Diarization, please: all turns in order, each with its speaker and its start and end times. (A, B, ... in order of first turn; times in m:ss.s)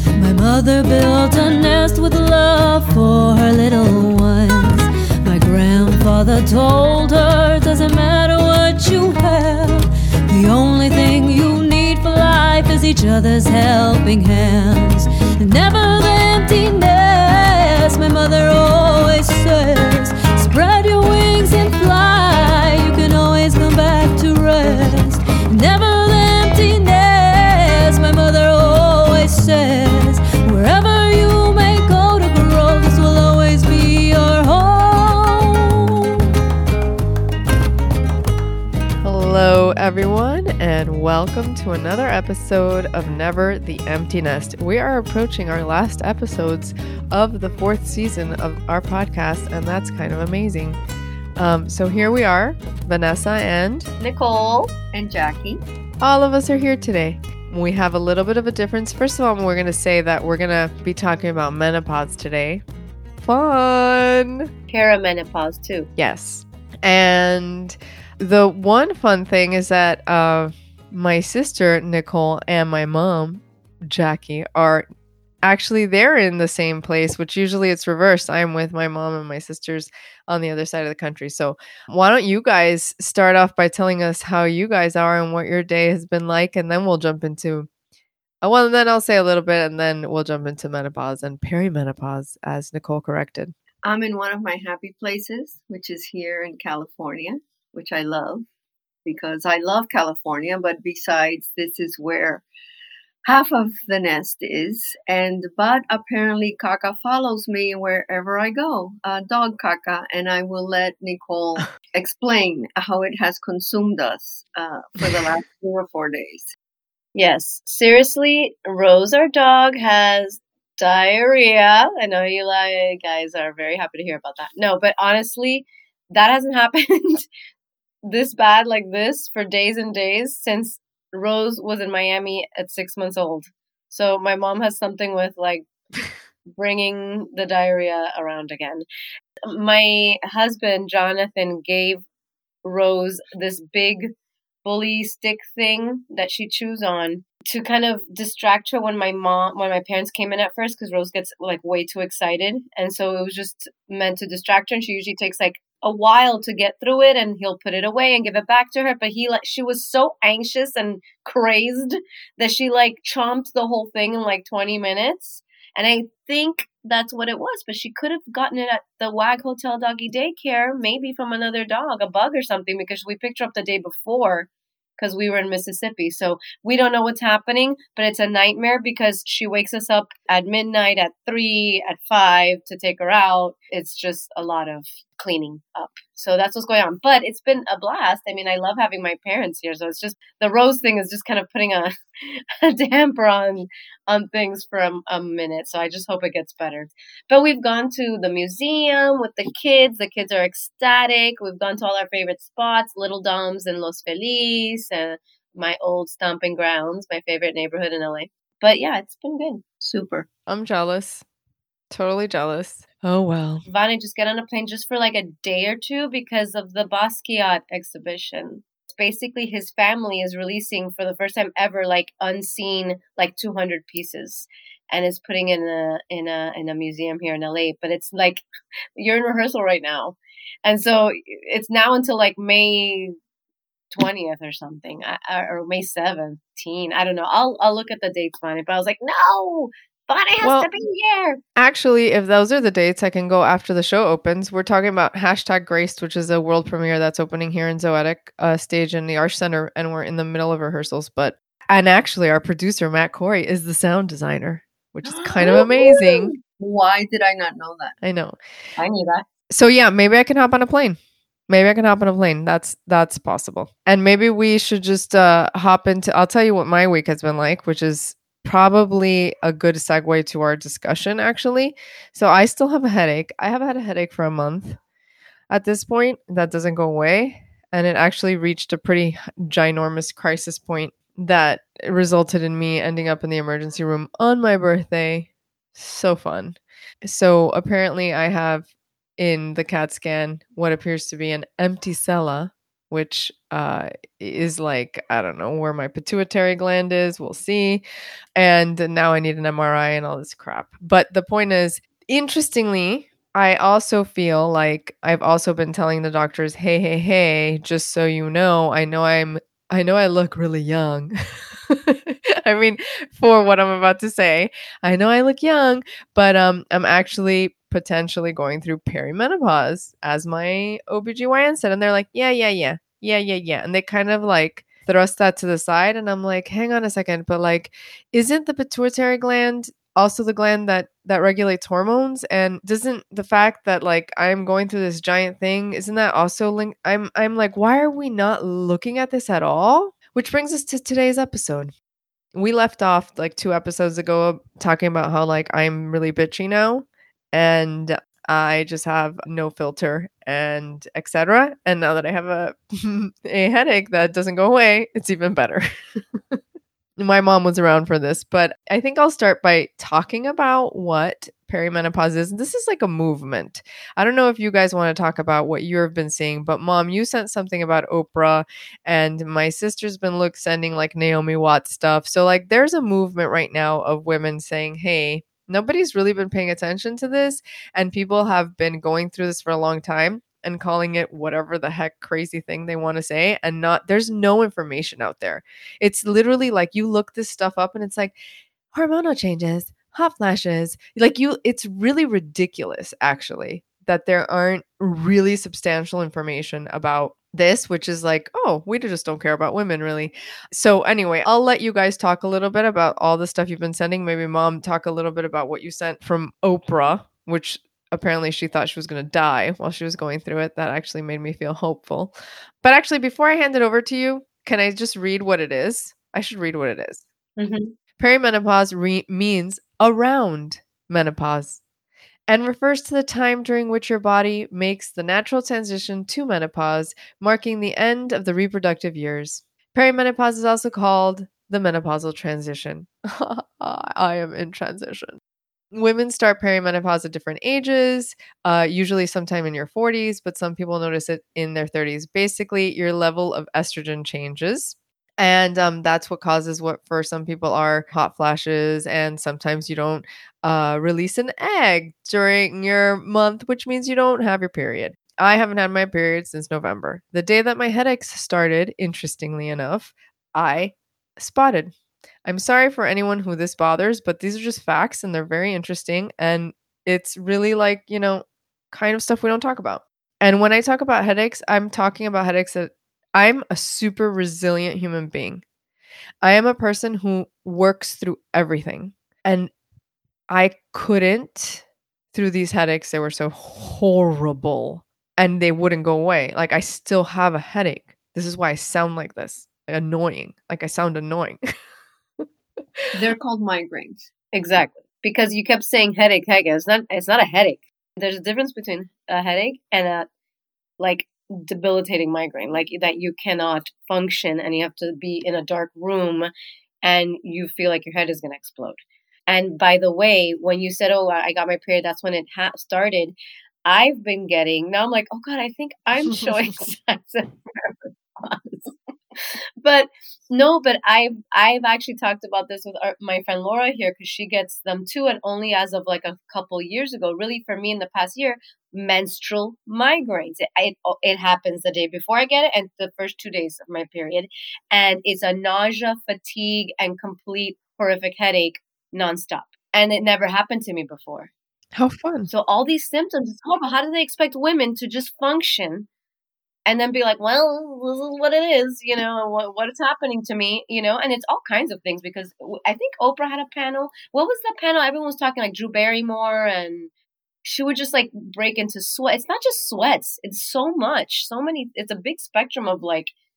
0:00.2-0:36.2 A
0:39.0-0:50.8 B
0:51.4-0:53.9 B
0:54.0-0:54.7 C
0:54.9-0:55.6 D
0:56.0-1:02.6 B
1:03.2-1:04.5 B
1:04.7-1:05.9 C
1:06.0-1:14.9 B
1:15.4-1:27.7 B
1:28.4-1:33.5 B
1:33.8-1:38.5 D
1:39.0-1:42.4 D
1:43.2-1:56.5 D
1:57.2-2:07.3 C
2:08.0-2:15.7 C
2:16.6-2:18.8 C
2:19.5-2:22.0 C
2:22.6-3:29.6 C
3:29.8-3:30.3 D
3:30.5-3:31.2 B
3:31.9-3:33.7 B
3:33.7-3:48.4 C
3:49.0-3:53.2 C
3:53.9-4:01.4 C
4:00.4-4:00.7 B
4:01.6-4:16.4 B
4:15.2-4:18.0 D
4:18.0-4:18.4 B
4:18.8-4:19.2 D
4:19.5-4:34.8 B
4:35.5-4:57.8 B
4:58.4-5:11.1 B
5:11.7-5:41.7 B
5:42.3-5:55.6 B
5:57.0-6:28.2 B
6:28.7-6:57.0 B
6:57.4-6:57.8 C
6:58.0-7:01.6 B
7:02.3-7:15.2 B
7:15.7-7:41.7 B
7:42.2-7:55.4 B
7:56.2-7:59.5 B
8:00.3-8:11.4 B
8:12.9-8:14.1 D
8:14.3-8:20.1 C
8:20.8-8:26.3 C
8:26.8-9:01.3 C
9:01.8-9:02.3 B
9:02.3-9:05.9 C
9:06.7-9:16.9 C
9:17.4-9:23.1 C